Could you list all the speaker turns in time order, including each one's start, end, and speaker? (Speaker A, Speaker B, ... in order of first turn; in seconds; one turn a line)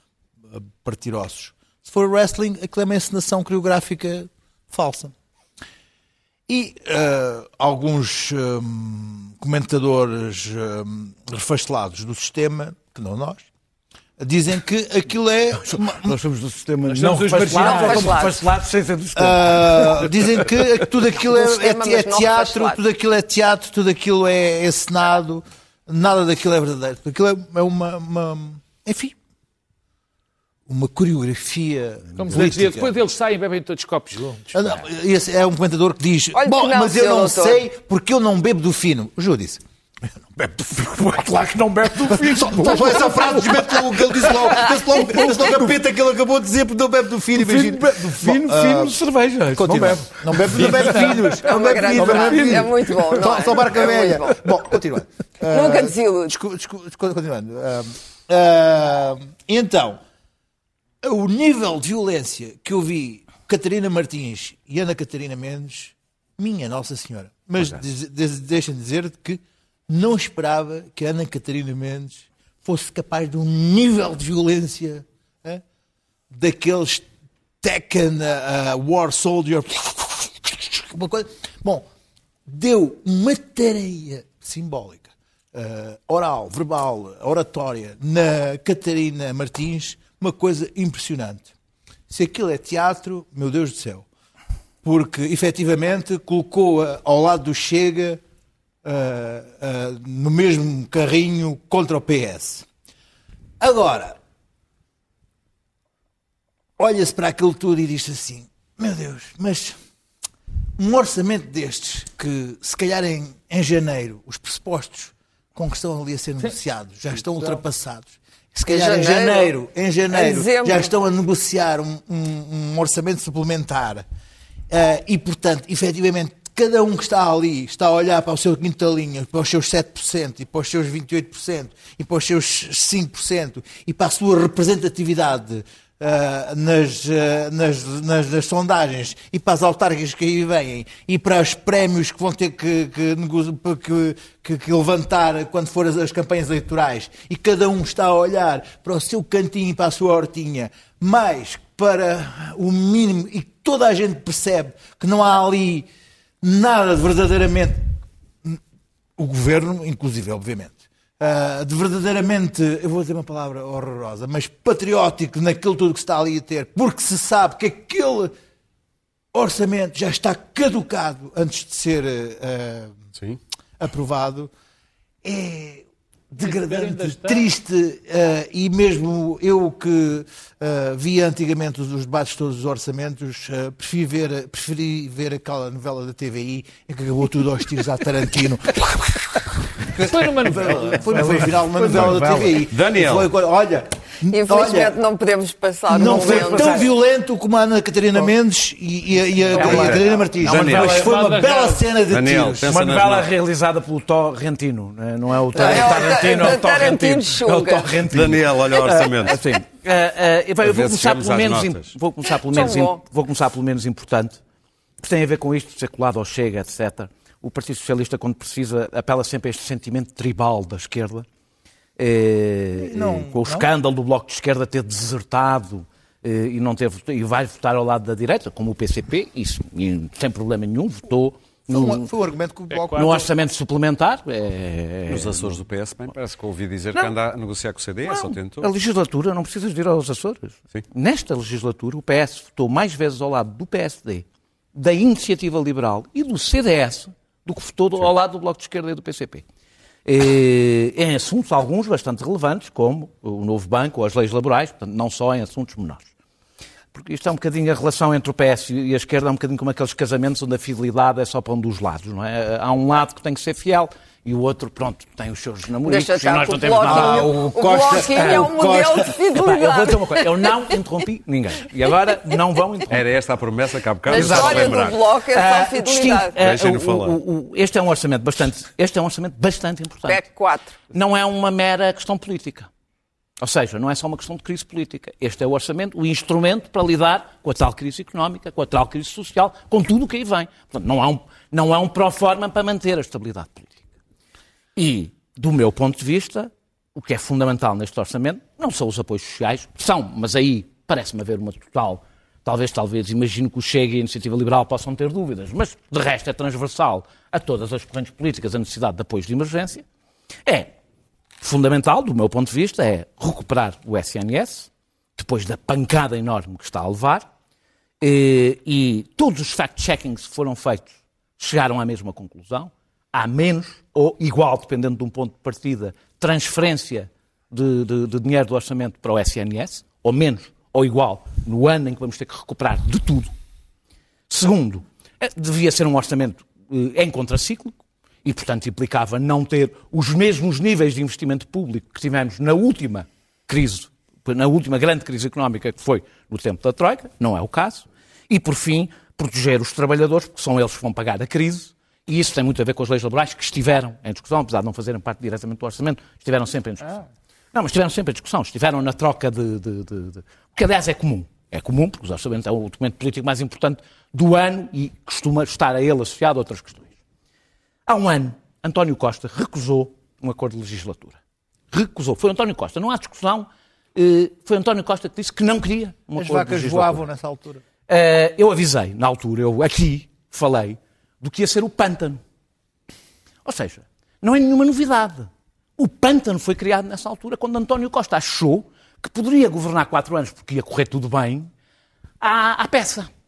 Speaker A: 0.5-5.1
Speaker A: 6.5-13.5
Speaker A: 14.2-16.2
Speaker B: 15.7-20.5
Speaker A: 16.9-17.9
Speaker C: 17.3-18.1
Speaker D: 17.5-18.4
Speaker A: 19.1-29.1
Speaker D: 21.2-22.8
Speaker A: 30.7-32.9
Speaker C: 32.1-34.8
Speaker A: 34.5-41.2
Speaker D: 36.4-37.6
Speaker B: 41.0-45.7
Speaker A: 42.0-48.9
Speaker B: 47.3-53.3
Speaker A: 49.5-60.0
Speaker D: 51.2-54.4
Speaker D: 55.5-56.3
Speaker A: 61.0-75.6
Speaker A: 76.3-77.0
Speaker A: 77.6-81.8
Speaker A: 82.5-91.5
Speaker A: 92.1-94.1
Speaker A: 94.8-98.2
Speaker A: 98.8-102.7
Speaker A: 103.6-104.2
Speaker A: 106.8-109.8
Speaker A: 110.8-124.0
Speaker D: 118.7-119.5
Speaker D: 120.1-120.9
Speaker A: 124.7-155.9
Speaker A: 156.4-157.8
Speaker A: 159.2-168.3
Speaker A: 169.3-172.9
Speaker A: 173.8-174.5
Speaker A: 175.2-194.9
Speaker C: 176.4-177.5
Speaker C: 190.1-191.0
Speaker B: 191.0-192.6
Speaker E: 192.7-193.3
Speaker D: 194.3-196.8
Speaker B: 195.9-196.9
Speaker A: 195.9-202.7
Speaker B: 199.5-201.4
Speaker E: 199.5-201.1
Speaker C: 201.1-201.8
Speaker E: 202.1-203.3
Speaker B: 202.7-214.4
Speaker D: 205.5-208.0
Speaker A: 205.6-206.3
Speaker E: 208.1-209.4
Speaker E: 210.6-211.9
Speaker D: 212.3-213.0
Speaker B: 215.0-221.2
Speaker B: 222.0-232.1
Speaker A: 222.8-223.7
Speaker A: 231.7-233.3
Speaker C: 232.7-233.2
Speaker B: 232.9-235.6
Speaker E: 235.1-238.7
Speaker B: 238.0-249.4
Speaker B: 250.1-256.1
Speaker B: 256.9-267.4
Speaker D: 265.8-270.6
Speaker A: 266.9-269.1
Speaker B: 268.0-273.0
Speaker E: 272.9-275.1
Speaker D: 274.1-276.4
Speaker B: 274.1-280.2
Speaker E: 276.4-277.2
Speaker D: 280.1-280.8
Speaker B: 280.9-282.7
Speaker B: 283.4-293.8
Speaker B: 294.8-309.8
Speaker B: 310.4-310.7
Speaker B: 311.4-317.3
Speaker B: 318.0-333.3
Speaker B: 334.3-366.9
Speaker B: 367.9-371.2
Speaker B: 371.7-377.0
Speaker A: 376.2-377.6
Speaker B: 377.9-382.2
Speaker B: 383.4-391.5
Speaker B: 392.2-393.1